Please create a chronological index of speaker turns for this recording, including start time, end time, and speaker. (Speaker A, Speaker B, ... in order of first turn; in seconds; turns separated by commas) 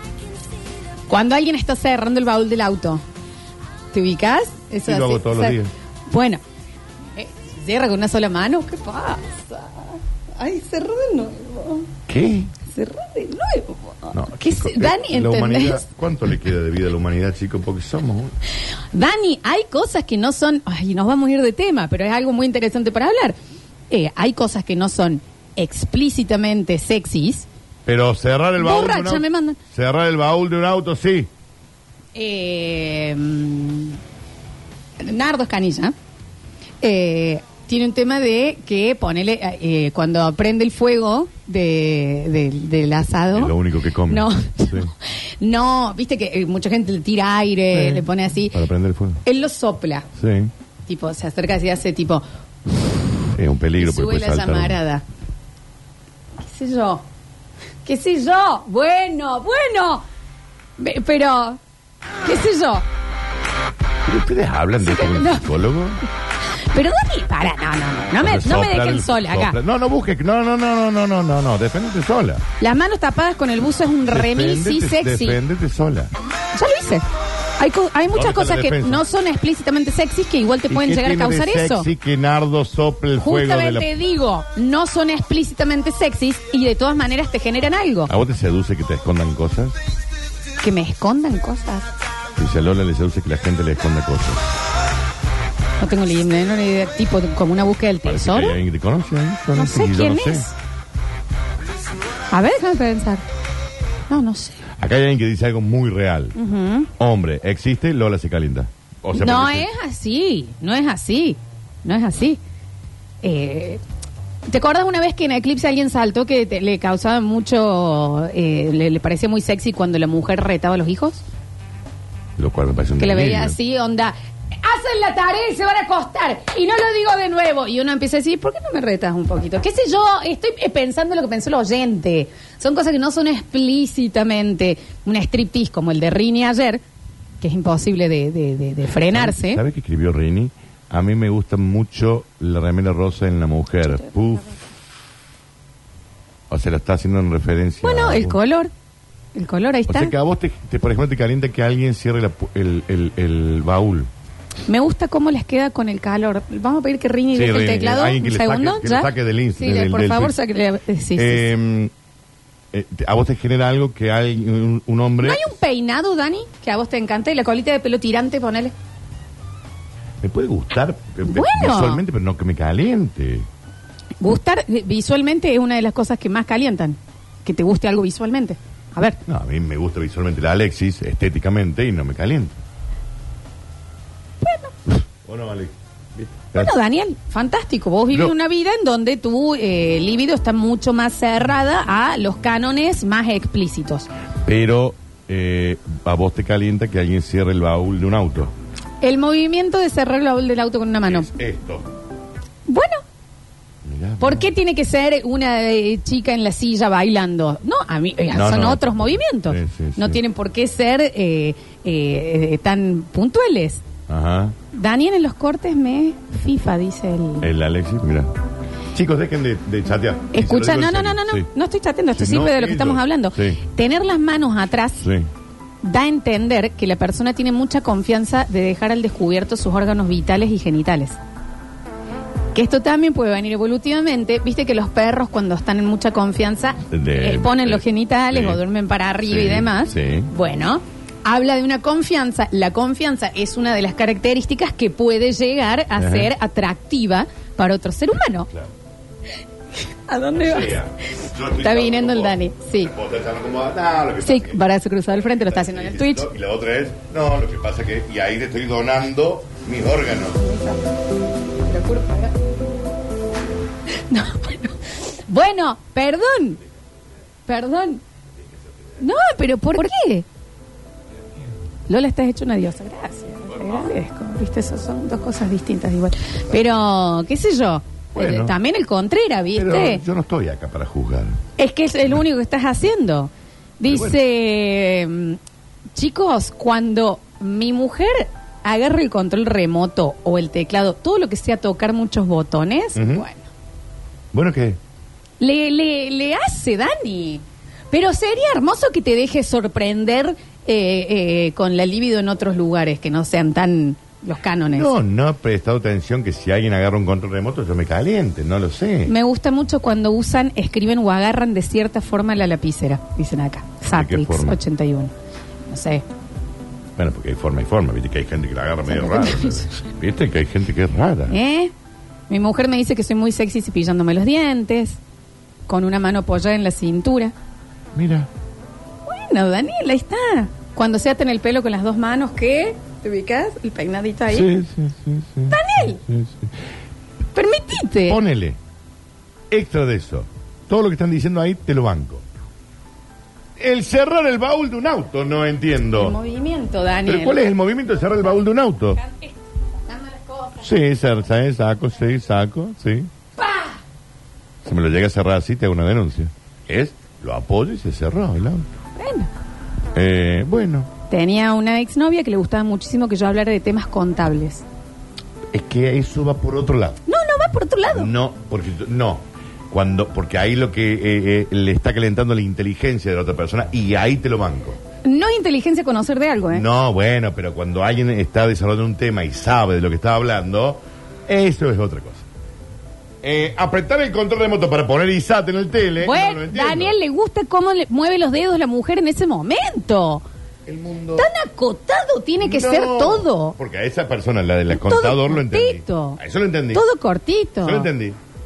Speaker A: 1.1-3.0, Speaker A: 3.9-5.6, Speaker B: 4.9-5.7, Speaker A: 6.1-6.4, Speaker A: 7.2-11.9, Speaker B: 12.1-12.5, Speaker A: 12.7-15.9, Speaker B: 14.1-18.3, Speaker A: 18.9-23.4, Speaker A: 23.9-27.5, Speaker B: 27.9-31.3, Speaker A: 28.6-29.6, Speaker A: 32.1-34.0, Speaker A: 35.0-35.9, Speaker A: 36.8-43.5, Speaker B: 43.3-44.9, Speaker A: 44.1-48.6, Speaker B: 47.7-49.2, Speaker A: 49.2-50.1, Speaker B: 50.2-50.5, Speaker A: 50.9-52.9, Speaker B: 53.3-54.8, Speaker A: 53.8-55.0, Speaker A: 56.4-57.0, Speaker A: 57.9-60.0, Speaker A: 60.8-61.6, Speaker A: 62.2-62.9, Speaker B: 64.0-66.0, Speaker A: 64.8-65.5, Speaker A: 66.7-69.6, Speaker B: 68.2-72.5, Speaker A: 72.6-75.4, Speaker B: 74.1-76.1, Speaker A: 76.5-77.0, Speaker A: 77.6-81.9, Speaker B: 78.1-79.0, Speaker B: 80.7-83.9, Speaker A: 83.2-88.1, Speaker B: 88.1-89.8, Speaker A: 90.6-91.9, Speaker B: 92.4-94.5, Speaker A: 95.8-98.6, Speaker B: 98.0-100.5, Speaker A: 99.5-100.5, Speaker A: 102.3-103.3, Speaker A: 104.1-104.6, Speaker B: 104.8-106.4, Speaker A: 106.4-106.9, Speaker B: 107.0-109.7, Speaker A: 109.2-112.4, Speaker A: 113.2-113.8, Speaker A: 114.5-121.2, Speaker B: 122.4-123.6, Speaker A: 123.0-136.8, Speaker A: 137.4-139.6, Speaker B: 139.1-144.5, Speaker B: 146.5-148.4, Speaker A: 147.8-148.7, Speaker A: 149.3-150.2, Speaker B: 149.9-154.1, Speaker A: 154.7-161.4, Speaker B: 157.3-160.3, Speaker B: 161.2-161.9, Speaker B: 162.7-165.6, Speaker A: 165.2-168.7, Speaker B: 170.2-173.5, Speaker A: 171.3-172.0, Speaker A: 174.2-179.2, Speaker B: 179.3-182.6, Speaker A: 184.4-184.8, Speaker B: 185.2-186.8, Speaker A: 186.5-194.1, Speaker B: 194.4-198.5, Speaker A: 199.0-201.3, Speaker B: 201.1-201.9, Speaker A: 202.7-203.0, Speaker B: 203.8-204.5, Speaker A: 204.2-213.8, Speaker B: 208.3-210.2, Speaker B: 214.1-214.6, Speaker A: 214.7-217.5, Speaker B: 217.4-218.3, Speaker B: 218.9-221.5, Speaker A: 220.3-225.0, Speaker B: 222.2-223.6, Speaker B: 225.0-225.3, Speaker A: 225.8-231.2, Speaker A: 232.5-248.5, Speaker B: 236.9-238.6, Speaker B: 239.2-240.3, Speaker B: 246.0-246.3, Speaker A: 250.1-250.8, Speaker B: 250.4-254.6, Speaker A: 251.6-252.9, Speaker A: 254.2-256.3, Speaker B: 255.2-260.4, Speaker A: 260.4-260.9, Speaker A: 261.6-262.4, Speaker A: 264.1-266.6, Speaker A: 267.5-268.0, Speaker A: 269.0-270.3, Speaker A: 271.9-280.0, Speaker B: 278.1-278.6, Speaker B: 279.6-281.4, Speaker A: 281.6-285.4, Speaker B: 283.9-284.2, Speaker A: 285.9-293.5, Speaker B: 293.0-293.2, Speaker B: 294.3-294.8, Speaker A: 295.4-304.9, Speaker B: 304.7-309.1, Speaker A: 309.1-315.1, Speaker B: 313.9-314.6, Speaker A: 315.7-316.0, Speaker B: 317.0-321.4, Speaker A: 318.9-319.7, Speaker A: 321.3-321.7, Speaker A: 322.3-325.0, Speaker A: 325.7-327.3, Speaker B: 327.9-328.3, Speaker A: 329.1-334.5, Speaker B: 334.3-336.6, Speaker A: 335.5-336.0, Speaker A: 337.4-338.2, Speaker B: 338.1-338.6, Speaker B: 339.5-342.2, Speaker B: 343.6-346.2, Speaker A: 346.0-347.4, Speaker B: 347.1-349.0, Speaker A: 348.9-350.7, Speaker B: 350.6-353.1, Speaker A: 353.4-353.8, Speaker B: 354.6-358.7, Speaker A: 359.0-359.3, Speaker B: 359.9-360.9, Speaker A: 361.1-364.6, Speaker B: 365.5-367.0, Speaker A: 367.1-368.1, Speaker B: 367.9-374.8, Speaker A: 375.1-376.6, Speaker B: 376.5-382.3, Speaker B: 383.2-387.0, Speaker A: 386.0-390.2, Speaker B: 390.7-391.3, Speaker A: 391.2-393.6, Speaker B: 392.4-396.8, Speaker A: 394.7-396.2, Speaker A: 396.7-397.9, Speaker B: 397.6-398.2